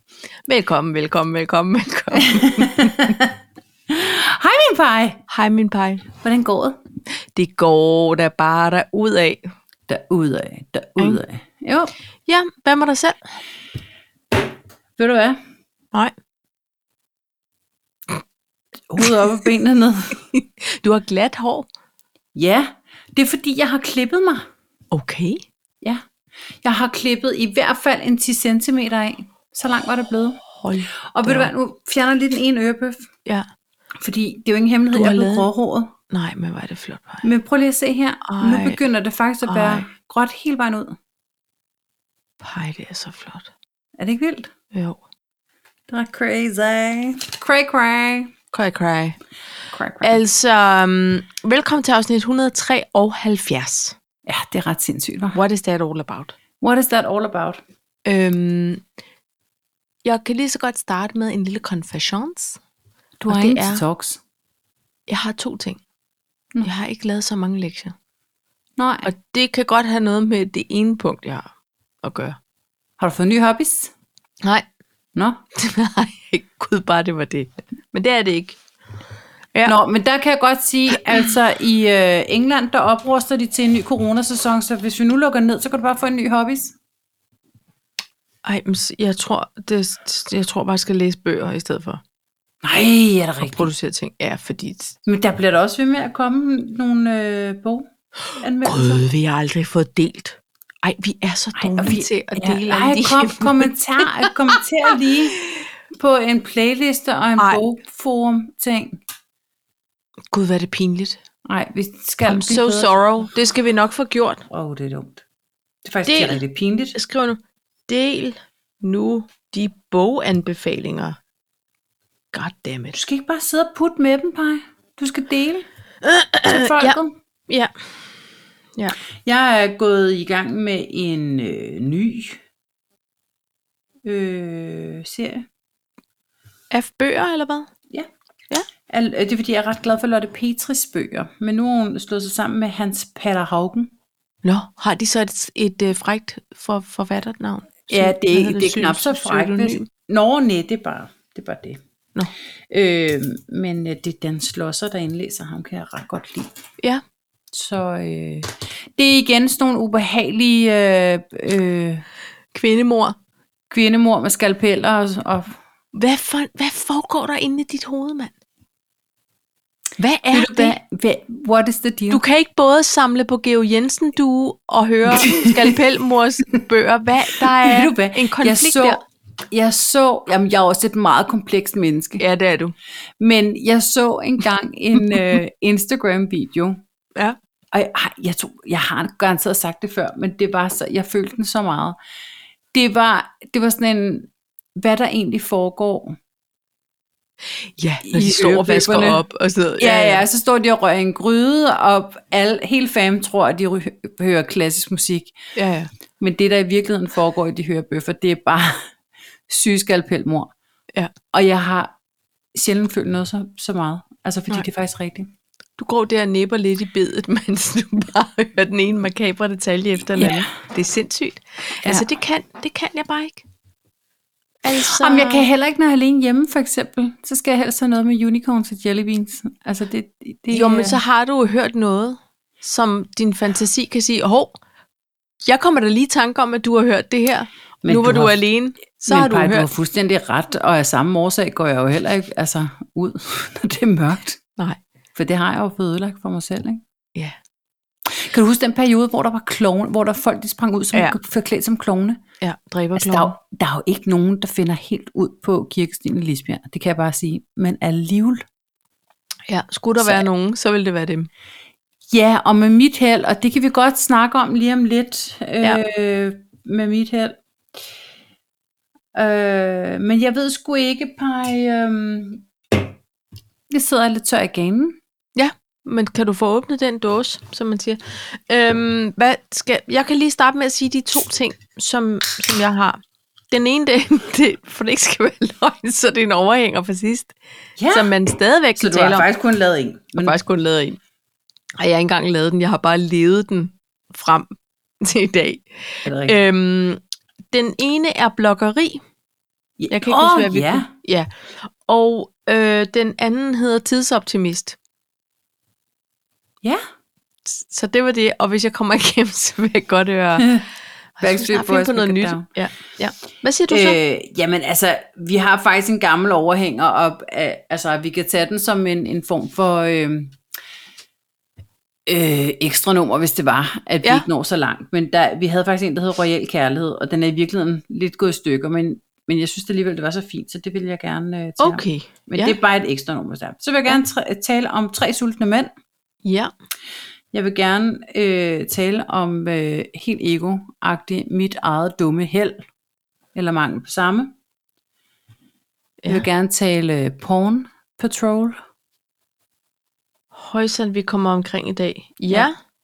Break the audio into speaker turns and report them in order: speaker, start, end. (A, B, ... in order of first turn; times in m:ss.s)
0:00.5-0:03.0 A
0:02.2-0:03.3 B
0:03.9-0:05.2 B
0:05.3-0:06.1 A
0:06.1-0:06.8 B
0:07.3-0:09.5 A
0:09.9-0:11.9 B
0:12.3-0:13.2 A
0:15.0-0:15.4 B
0:18.9-0:20.2 B
0:20.3-0:21.7 A
0:22.3-0:24.4 B
0:24.9-0:25.4 A
0:26.6-0:30.4 B
0:30.6-0:31.5 A
0:31.1-0:33.1 B
0:34.0-0:35.9 B
0:34.9-0:35.5 A
0:36.1-0:37.2 A
0:37.2-0:41.0 B
0:38.2-0:38.8 A
0:39.4-0:39.9 A
0:42.4-0:43.5 A
0:44.0-0:44.5 B
0:44.7-0:45.0 A
0:45.9-0:48.3 B
0:48.5-0:49.2 A
0:49.7-0:50.2 B
0:50.0-0:54.0 A
0:54.3-0:55.4 B
0:55.3-0:56.4 A
0:56.6-0:57.6 B
0:58.0-0:58.8 A
1:00.0-1:02.6 A
1:03.2-1:04.2 B
1:03.3-1:03.8 A
1:05.1-1:05.8 A
1:06.6-1:07.9 A
1:08.8-1:09.1 B
1:09.0-1:11.5 A
1:12.0-1:12.4 A
1:13.0-1:13.9 B
1:15.5-1:18.6 A
1:19.6-1:26.8 B
1:20.9-1:21.3 A
1:28.4-1:32.0 A
1:32.6-1:33.7 B
1:33.4-1:35.0 A
1:35.0-1:37.9 B
1:38.4-1:39.1 B
1:38.6-1:44.3 A
1:41.6-1:45.4 B
1:45.9-1:49.0 B
1:50.3-1:51.2 A
1:51.4-1:52.9 B
1:52.2-1:54.4 A
1:54.5-1:55.2 B
1:55.8-1:56.9 B
1:56.0-1:56.4 A
1:56.9-2:01.2 A
2:02.3-2:03.0 A
2:02.9-2:05.6 B
2:06.0-2:07.7 A
2:06.4-2:07.1 B
2:09.2-2:12.4 B
2:14.0-2:15.5 B
2:16.7-2:17.7 A
2:18.9-2:23.9 B
2:24.4-2:29.9 A
2:27.9-2:31.8 B
2:32.7-2:36.5 B
2:37.5-2:42.0 B
2:42.5-2:43.2 A
2:43.7-2:45.6 B
2:45.9-2:48.3 A
2:50.0-2:50.8 A
2:50.3-2:52.2 B
2:52.1-2:59.0 A
2:55.1-2:55.8 B
2:57.4-3:02.2 B
3:02.2-3:02.7 A
3:03.2-3:06.8 B
3:07.7-3:12.0 B
3:12.7-3:16.2 B
3:17.8-3:20.2 A
3:18.0-3:19.2 B
3:19.8-3:25.3 B
3:25.5-3:25.9 A
3:26.2-3:28.9 B
3:29.5-3:30.5 B
3:31.3-3:31.9 B
3:32.5-3:35.3 B
3:35.8-3:43.4 A
3:40.1-3:40.5 B
3:44.6-3:45.5 A
3:44.8-3:51.0 B
3:50.5-3:54.6 A
3:55.4-3:59.7 A
3:57.8-3:58.4 B
3:58.9-4:04.4 B
4:05.1-4:06.8 B
4:08.1-4:12.2 B
4:12.4-4:13.4 A
4:13.0-4:18.4 B
4:19.5-4:21.3 A
4:20.0-4:20.2 B
4:22.1-4:27.4 B
4:29.1-4:32.9 B
4:33.7-4:35.0 B
4:35.4-4:43.0 A
4:43.5-4:47.3 A
4:47.8-4:48.1 B
4:47.9-4:49.3 A
4:48.8-4:50.4 B
4:50.2-4:51.0 A
4:51.8-4:57.0 A
4:56.0-4:56.4 B
4:57.5-4:59.0 A
4:59.8-5:00.9 B
4:59.9-5:04.8 A
5:07.5-5:10.6 A
5:10.4-5:10.6 B
5:11.2-5:14.0 A
5:11.2-5:12.4 B
5:13.7-5:20.4 B
5:22.0-5:35.7 B
5:31.6-5:32.6 A
5:36.2-5:36.5 A
5:37.3-5:42.6 B
5:43.3-5:44.3 B
5:46.0-5:48.6 B
5:50.3-5:52.5 A